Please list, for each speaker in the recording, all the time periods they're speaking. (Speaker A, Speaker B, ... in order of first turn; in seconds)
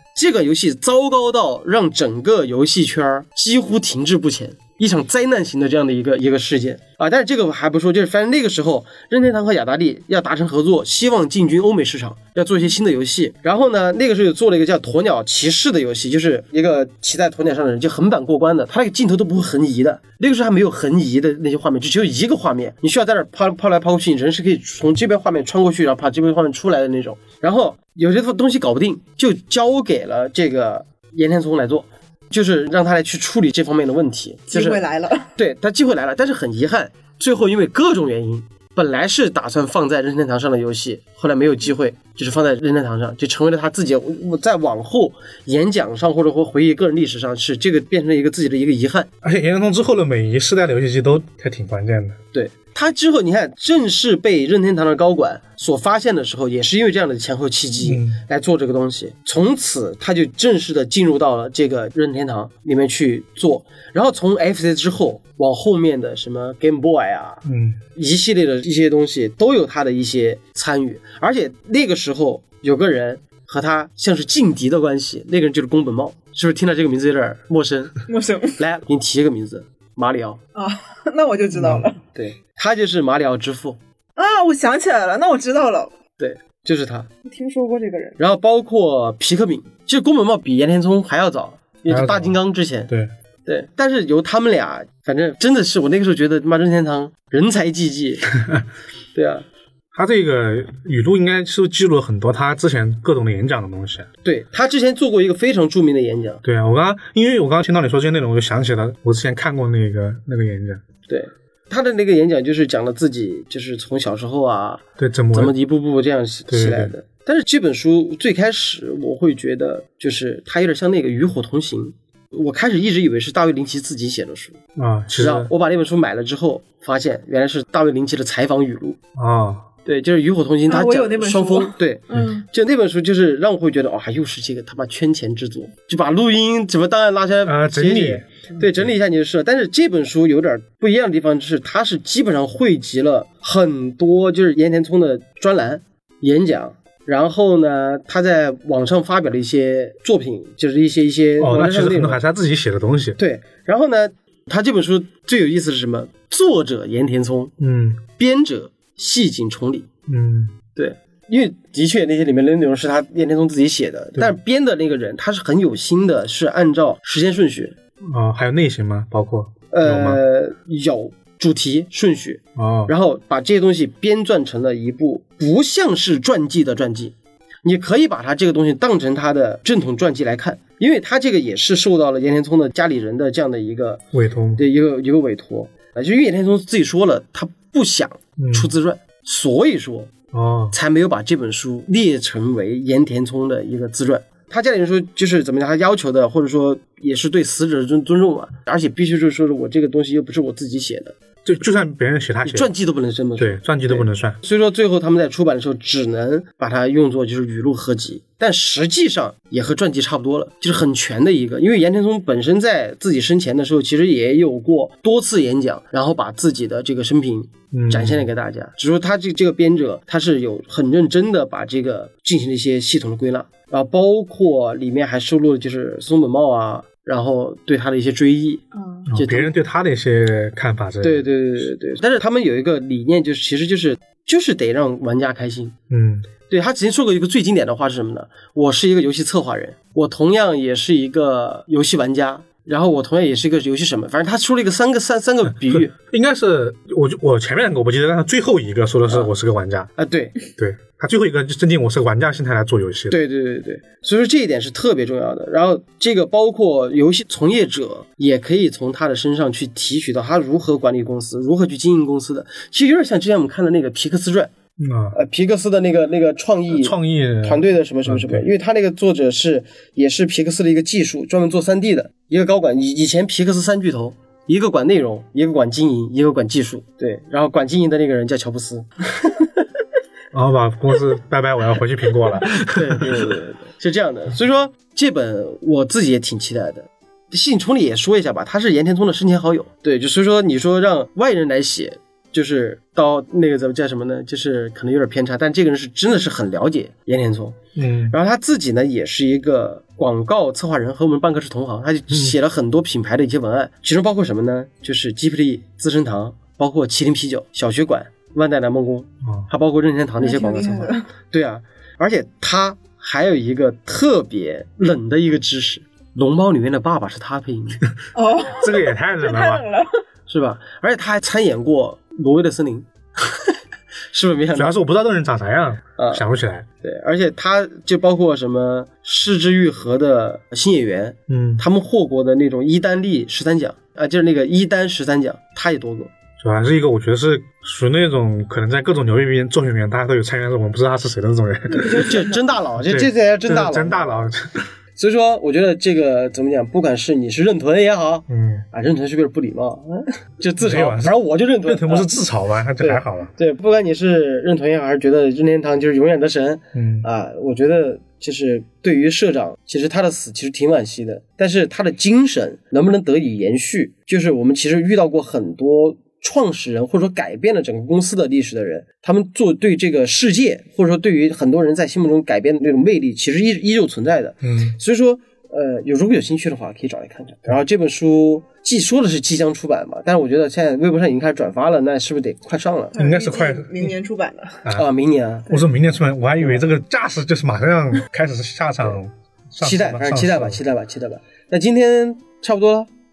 Speaker A: 0.1-34.8, 35.4-49.1, 52.3-78.0, 78.6-80.4, 82.1-83.8, 86.2-87.1, 88.2-92.9, 93.5-98.3, 99.1-99.5, 104.2-106.4, 111.1-124.6, 125.2-129.0, 129.8-152.2, 153.2-157.5, 158.1-159.9, 160.8-167.8, 169.7-184.0, 184.6-190.1, 190.7-201.2, 202.4-229.5, 231.0-235.8, 236.5-245.9, 250.0-250.3, 253.1-264.5, 265.1-279.6, 282.6-297.6, 298.1-317.8, 320.3-323.6, 324.1-324.8, 326.0-326.2, 326.8-336.1, 342.0-344.3, 345.0-352.1, 352.8-382.9, 384.7-385.5, 386.4-386.6, 389.6-392.9
Speaker B: 34.5-35.3, 78.1-78.6, 80.5-82.0, 84.2-85.9, 87.3-88.2, 130.7-132.5, 228.7-229.1, 310.2-311.1, 318.1-320.0, 341.7-342.2, 382.9-384.6
Speaker C: 49.2-52.2, 57.8-58.2, 67.5-67.8, 81.6-81.9, 91.9-92.4, 99.9-104.1, 106.4-110.8, 115.0-115.6, 116.5-116.9, 124.8-125.5, 129.2-129.7, 137.4-138.7, 151.4-153.2, 157.6-158.0, 160.1-160.6, 168.0-170.2, 172.6-172.9, 184.1-184.6, 188.4-188.7, 190.3-190.8, 201.4-202.7, 203.4-204.4, 217.7-218.3, 229.1-231.3, 235.9-236.3, 245.6-249.9, 250.6-253.2, 264.8-265.2, 266.7-268.5, 280.3-283.4, 297.8-298.1, 309.2-309.5, 318.5-319.6, 324.6-326.7, 331.3-331.6, 336.4-344.7, 348.3-348.6, 350.6-353.3, 356.7-357.1, 374.4-374.8, 383.0-383.9, 385.5-390.6